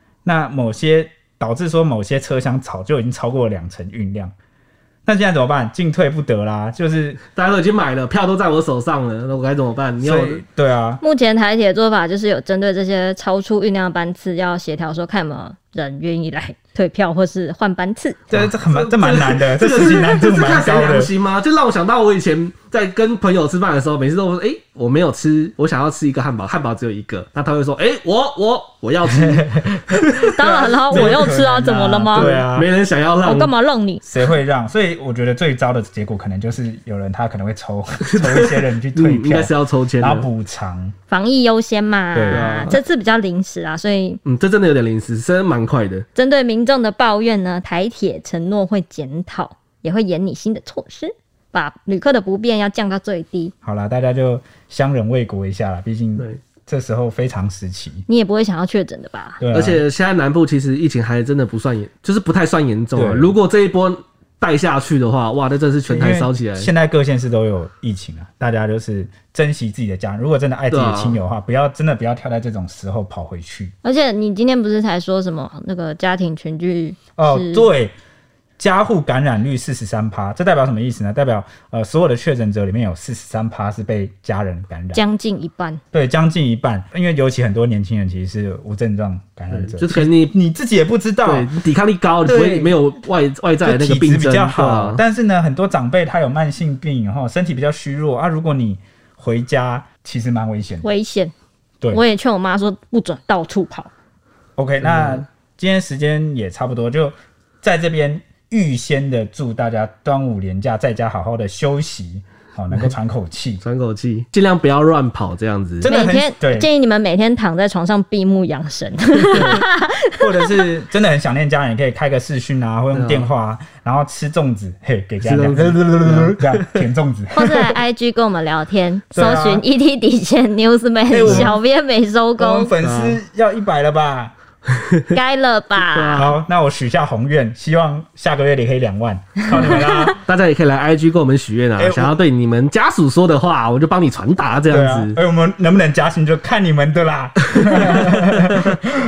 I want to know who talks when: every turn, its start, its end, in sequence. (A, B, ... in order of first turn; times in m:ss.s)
0:00.2-0:04.3 A
0:05.0-0:07.2 A
0:07.3-0:10.4 B
0:10.0-0:11.0 A
0:11.0-0:18.2 C
0:18.3-0:21.1 A
0:18.3-0:31.5 B
0:29.1-0:32.7 A
0:30.3-0:32.4 C
0:32.1-0:33.5 B
0:33.2-0:34.0 C
0:34.0-0:40.9 A
0:38.0-0:40.3 B
0:41.1-0:44.2 C
0:42.1-0:42.5 A
0:42.3-0:42.8 B
0:44.2-0:46.0 B
0:46.1-0:53.5 C
0:53.6-0:58.0 A
0:58.1-0:59.4 C
0:59.4-0:59.8 A
0:59.5-1:06.7 B
1:02.9-1:03.3 A
1:05.9-1:13.7 A
1:10.7-1:11.2 B
1:13.8-1:17.7 C
1:17.2-1:17.9 A
1:18.6-1:25.0 A
1:24.9-1:25.8 C
1:25.9-1:31.5 A
1:29.5-1:30.3 B
1:31.2-1:35.0 B
1:32.2-1:32.8 A
1:33.6-1:40.9 A
1:40.8-1:41.3 C
1:41.9-1:43.9 C
1:44.6-1:53.6 A
1:44.8-1:45.2 B
1:53.6-1:55.9 B
1:55.8-1:56.7 A
1:55.8-2:00.6 C
1:59.3-2:07.8 A
1:59.3-1:59.6 B
2:02.9-2:03.3 B
2:05.2-2:06.8 B
2:07.3-2:12.7 C
2:09.1-2:09.6 A
2:11.1-2:11.6 A
2:11.3-2:11.5 B
2:12.4-2:14.3 A
2:12.8-2:13.2 B
2:15.1-2:16.3 C
2:15.9-2:16.3 B
2:16.1-2:20.2 A
2:20.2-2:25.2 B
2:21.8-2:22.2 A
2:24.7-2:28.8 A
2:27.6-2:28.6 B